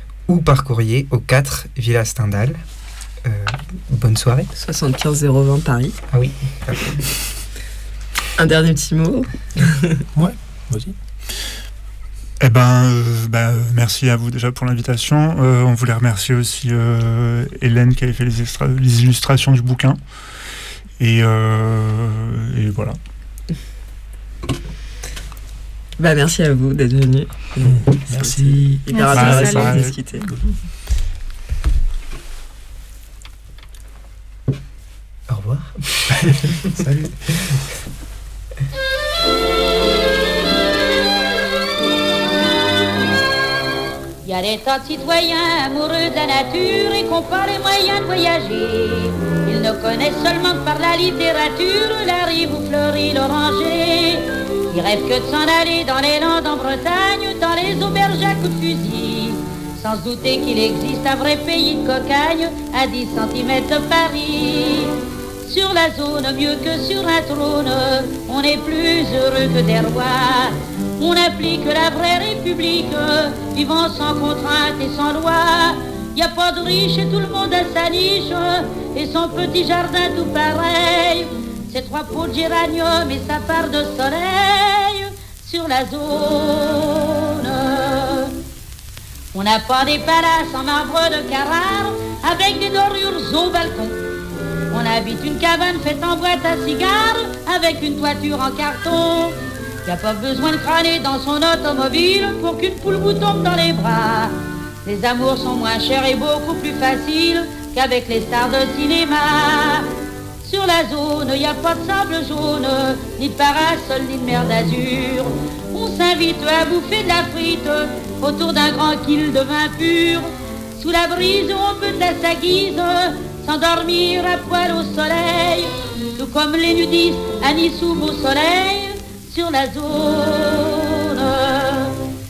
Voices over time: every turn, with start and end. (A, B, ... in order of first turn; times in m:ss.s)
0:00.3-0:02.6 A
0:03.2-0:04.5 A
0:04.6-0:06.0 B
0:06.1-0:07.2 A
0:08.4-0:10.0 B
0:10.1-0:11.0 C
0:12.4-0:20.0 D
0:21.0-0:23.0 D
0:26.0-0:30.3 B
0:27.6-0:29.7 C
0:29.1-0:30.0 D
0:35.3-0:36.5 A
0:36.1-0:37.6 C
0:44.2-1:28.3 E
1:29.3-1:34.0 E
1:34.7-1:49.9 E
1:50.4-2:12.0 E